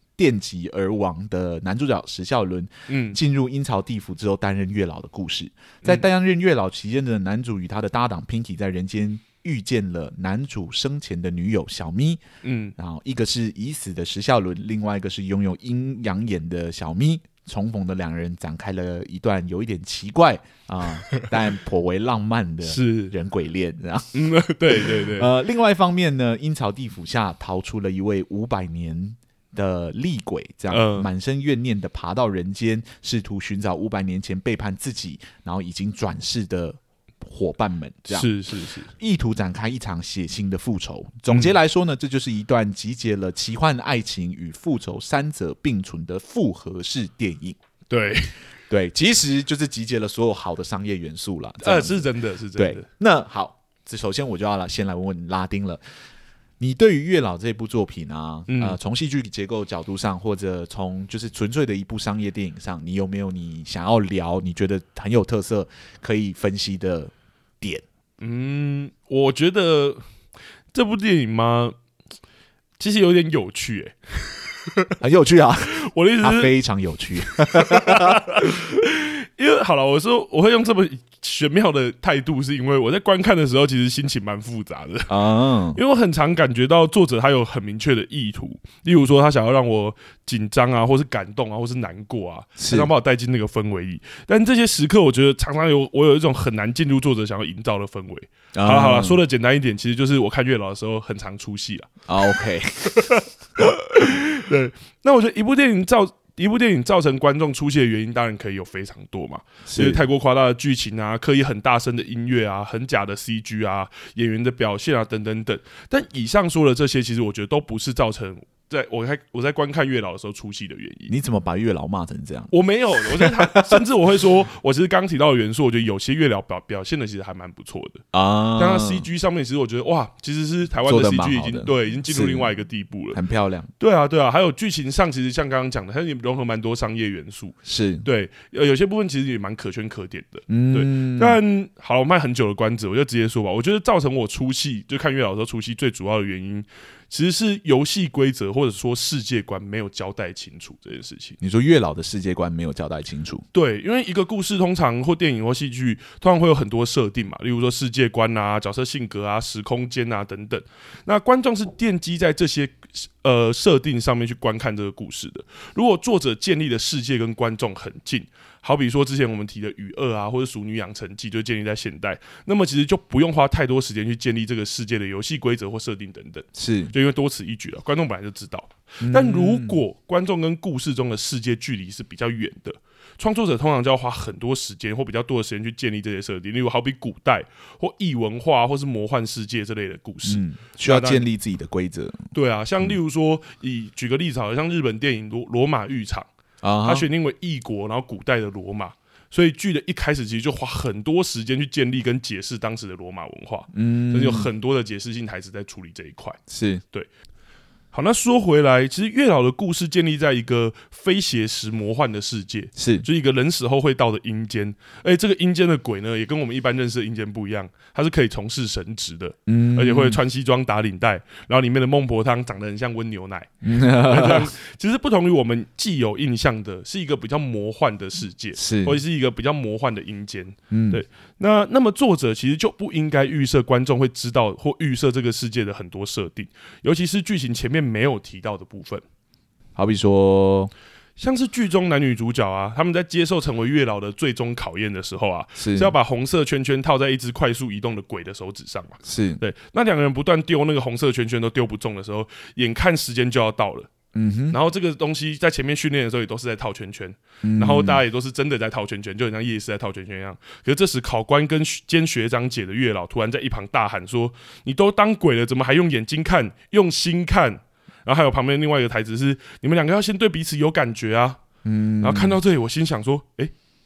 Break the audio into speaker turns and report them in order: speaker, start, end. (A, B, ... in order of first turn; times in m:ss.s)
0:00.2-0:12.2 A
0:02.9-0:03.2 B
0:12.4-0:12.7 B
0:12.8-0:24.1 A
0:22.6-0:23.1 B
0:24.1-0:25.3 B
0:24.7-0:38.3 A
0:30.7-0:31.1 B
0:38.1-0:38.9 B
0:39.0-0:47.6 A
0:41.3-0:41.6 B
0:47.9-0:48.4 B
0:48.7-0:55.8 A
0:51.6-0:52.9 B
0:56.6-1:07.8 A
0:58.5-0:58.8 B
1:08.2-1:10.0 B
1:10.7-1:11.8 B
1:12.8-1:14.9 B
1:15.0-1:18.2 A
1:15.7-1:16.5 B
1:17.4-1:25.1 B
1:25.1-1:25.8 A
1:25.7-1:41.9 B
1:32.6-1:32.9 A
1:38.5-1:39.2 A
1:42.1-1:43.1 A
1:43.0-2:01.2 B
1:49.7-1:50.0 A
2:01.1-2:02.5 A
2:02.5-2:08.0 B
2:03.0-2:03.8 A
2:08.1-2:09.0 A
2:08.6-2:13.2 B
2:10.8-2:12.5 A
2:13.1-2:13.7 A
2:13.8-2:31.4 B
2:17.6-2:18.0 A
2:20.5-2:21.4 A
2:31.4-2:33.4 A
2:33.5-3:11.2 B
2:56.5-2:56.9 A
2:59.0-2:59.8 A
3:10.2-3:12.9 A
3:12.3-3:16.3 B
3:16.6-3:17.0 A
3:16.8-3:26.4 B
3:23.7-3:24.5 A
3:26.5-3:26.8 A
3:27.9-3:59.0 B
3:32.8-3:33.0 A
3:39.5-3:40.2 A
3:43.6-3:44.5 A
3:48.6-3:49.0 A
3:50.7-3:51.0 A
3:59.8-4:00.7 A
4:01.2-4:13.9 B
4:05.6-4:05.9 A
4:09.0-4:09.4 A
4:14.1-4:14.6 A
4:14.5-4:31.4 B
4:17.4-4:18.0 A
4:31.6-4:32.4 A
4:32.0-4:33.5 B